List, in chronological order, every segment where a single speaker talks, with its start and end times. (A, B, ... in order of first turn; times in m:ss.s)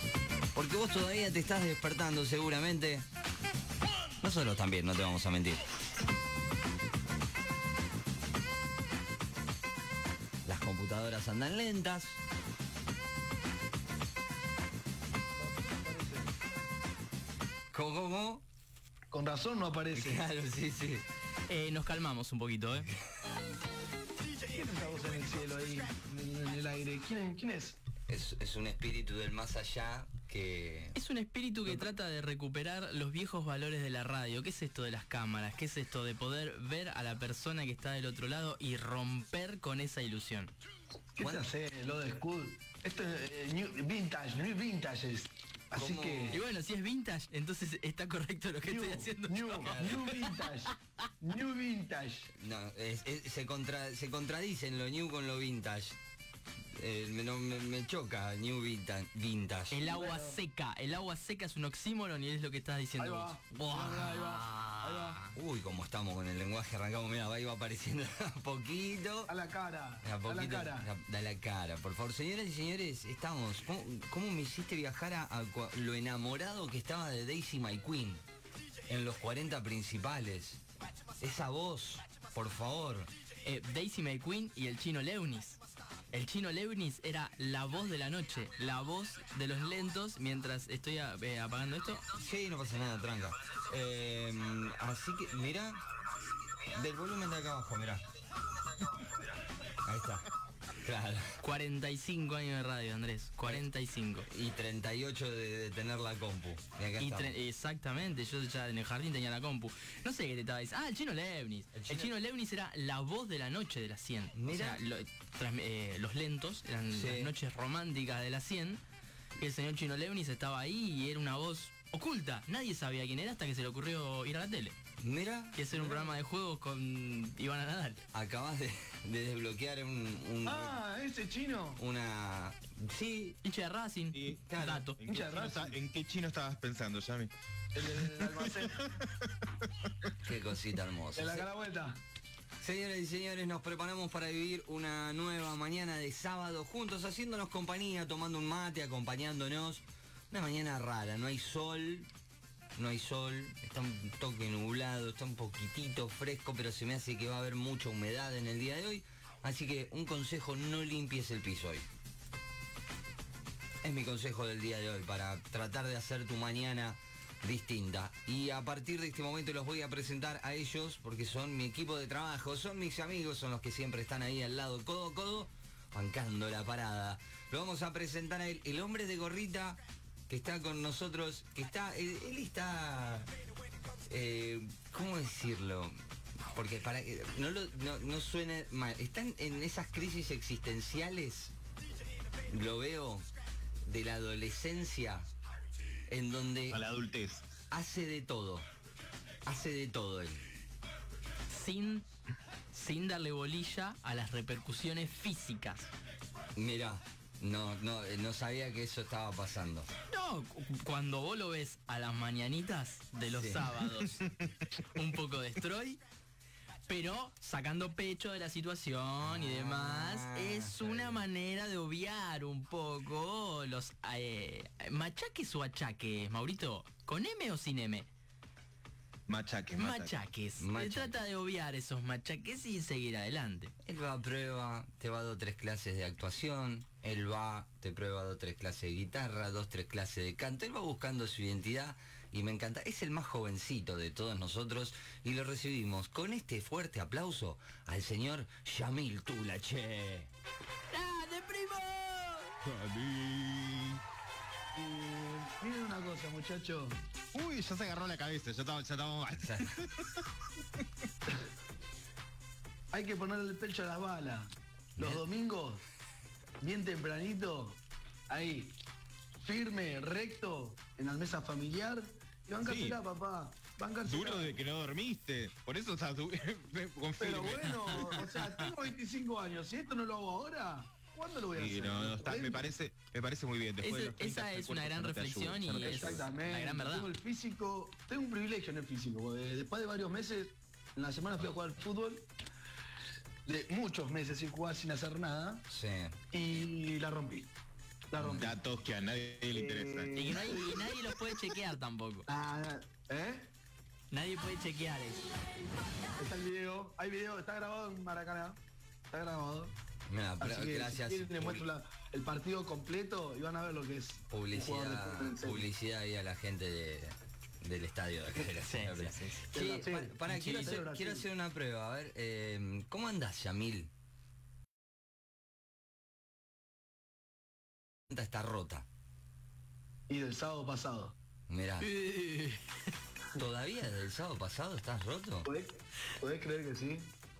0:00.5-0:03.0 A
0:04.2-0:05.6 A
0:10.4-0:12.2 A
0:15.4-0:16.3 B
0:17.7-0:18.4 A
0:19.1-0:20.2 B
0:19.9-0:21.1 A
0:21.5-0:22.9 C
0:24.5-0:27.8 B
0:28.1-0:31.0 A
0:30.9-0:40.5 C
0:41.1-0:46.4 B
0:41.2-0:41.5 A
0:45.7-0:46.4 A
0:46.3-0:50.5 C
0:48.6-0:52.3 B
0:49.6-0:50.1 A
0:52.3-0:56.0 A
0:56.7-0:59.9 A
0:59.7-1:05.3 C
0:59.8-1:00.4 B
1:03.0-1:05.2 B
1:05.3-1:09.3 A
1:09.3-1:10.9 B
1:10.0-1:18.2 A
1:18.9-1:20.6 A
1:21.2-1:23.1 A
1:23.4-1:25.6 C
1:26.1-1:32.0 C
1:32.1-1:35.8 A
1:36.7-1:38.0 A
1:39.8-1:41.4 A
1:41.4-1:44.3 C
1:44.3-1:47.3 A
1:47.0-1:58.8 C
1:51.7-1:52.1 A
1:54.3-1:54.8 A
1:56.9-1:57.3 A
1:59.4-2:04.8 C
2:05.0-2:05.7 A
2:05.5-2:08.0 C
2:05.7-2:06.1 B
2:08.1-2:10.8 A
2:10.4-2:11.8 B
2:11.8-2:13.4 A
2:13.4-2:15.0 C
2:14.1-2:17.3 D
2:14.5-2:14.9 A
2:15.1-2:15.8 B
2:17.7-2:18.9 B
2:18.0-2:19.9 D
2:20.2-2:21.5 A
2:21.1-2:22.0 B
2:22.6-2:32.1 A
2:32.8-2:41.8 A
2:43.8-3:03.3 A
3:04.1-3:05.9 A
3:06.5-3:11.5 A
3:12.5-3:13.3 A
3:13.8-3:15.3 A
3:16.1-3:16.8 A
3:16.7-3:17.4 D
3:17.7-3:18.7 A
3:19.4-3:20.5 A
3:21.5-3:22.1 C
3:22.7-3:25.9 C
3:26.6-3:29.9 A
3:30.1-3:34.3 C
3:33.3-3:33.7 A
3:34.8-3:36.0 C
3:36.9-3:48.1 C
3:39.2-3:41.2 A
3:49.3-3:50.2 D
3:49.8-3:53.7 C
3:50.6-3:51.2 A
3:53.8-4:10.3 A
4:10.9-4:12.6 C
4:12.6-4:14.0 D
4:14.7-4:17.0 B
4:17.3-4:20.2 D
4:19.4-4:19.8 A
4:22.9-4:25.8 B
4:25.0-4:25.2 A
4:26.6-4:28.8 B
4:29.4-4:34.6 B
4:32.6-4:33.0 D
4:34.0-4:38.4 D
4:37.2-4:42.7 B
4:37.9-4:38.6 C
4:41.5-4:46.2 D
4:43.8-4:47.1 C
4:45.8-4:52.3 B
4:53.4-4:55.7 B
4:55.7-4:56.6 A
4:56.3-4:57.5 B
4:58.1-4:58.5 B
4:58.2-4:58.5 A
4:58.4-5:00.5 D
4:59.5-5:01.1 B
5:00.1-5:02.3 C
5:02.3-5:03.5 B
5:04.1-5:05.2 C
5:06.2-5:08.6 B
5:09.1-5:09.7 B
5:10.1-5:11.6 A
5:10.4-5:15.6 B
5:14.3-5:23.9 A
5:18.6-5:19.5 C
5:19.5-5:21.2 B
5:28.1-5:28.8 A
5:30.1-5:31.1 B
5:31.5-5:31.9 A
5:31.8-5:32.6 C
5:33.4-5:35.5 A
5:35.4-5:37.1 B